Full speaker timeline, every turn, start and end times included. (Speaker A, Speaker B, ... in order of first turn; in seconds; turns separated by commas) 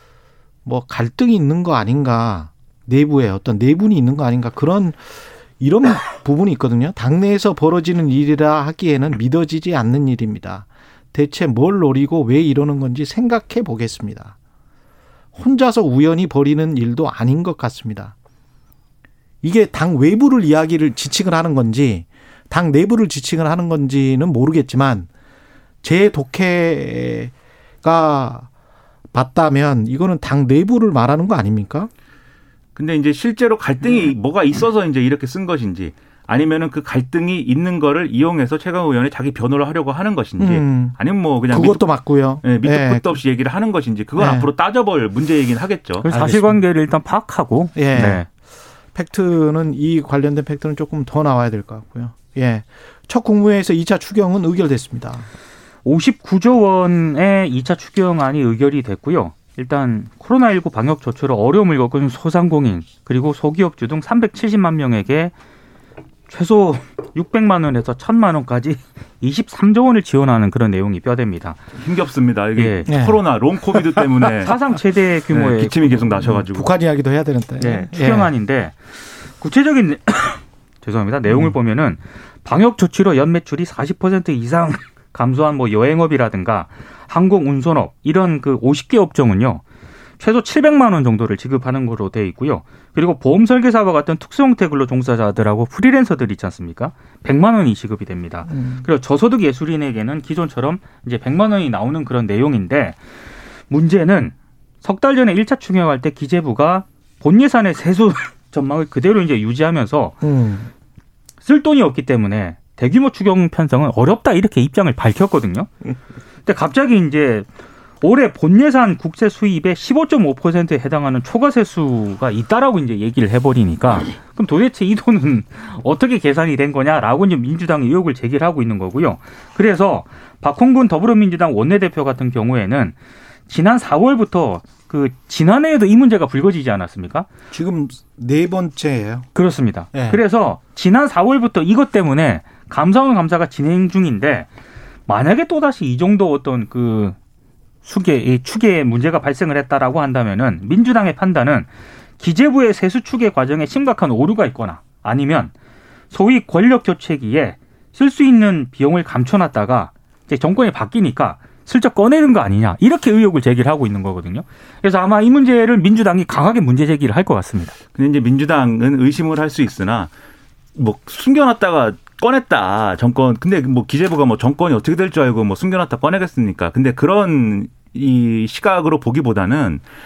Speaker A: 0.6-14.3, Speaker A: 15.3-18.1, Speaker A: 19.4-25.1, Speaker A: 25.8-28.5, Speaker A: 29.1-31.9, Speaker B: 32.8-46.1, Speaker A: 40.4-41.0, Speaker A: 41.5-43.2, Speaker A: 44.1-44.5, Speaker C: 46.0-48.2, Speaker A: 46.1-46.6, Speaker A: 47.7-48.3, Speaker A: 48.9-55.3, Speaker C: 55.8-65.3, Speaker C: 66.3-71.6, Speaker B: 71.8-74.5, Speaker C: 72.6-72.9, Speaker A: 72.9-73.2, Speaker A: 73.7-74.5, Speaker C: 74.5-76.1, Speaker B: 75.3-76.7, Speaker A: 76.2-78.3, Speaker C: 77.6-78.8, Speaker C: 79.4-89.6, Speaker A: 81.3-81.5, Speaker C: 90.2-103.0, Speaker A: 98.5-98.9, Speaker C: 103.7-110.2, Speaker A: 110.2-110.7, Speaker C: 111.4-115.7, Speaker C: 116.4-117.5, Speaker C: 118.0-132.9, Speaker C: 133.5-137.3, Speaker A: 137.5-139.3, Speaker C: 139.3-144.5, Speaker A: 139.9-140.2, Speaker C: 145.1-147.2, Speaker C: 147.8-151.7, Speaker C: 152.2-155.5, Speaker C: 156.1-167.7, Speaker B: 167.9-170.1, Speaker B: 170.8-179.8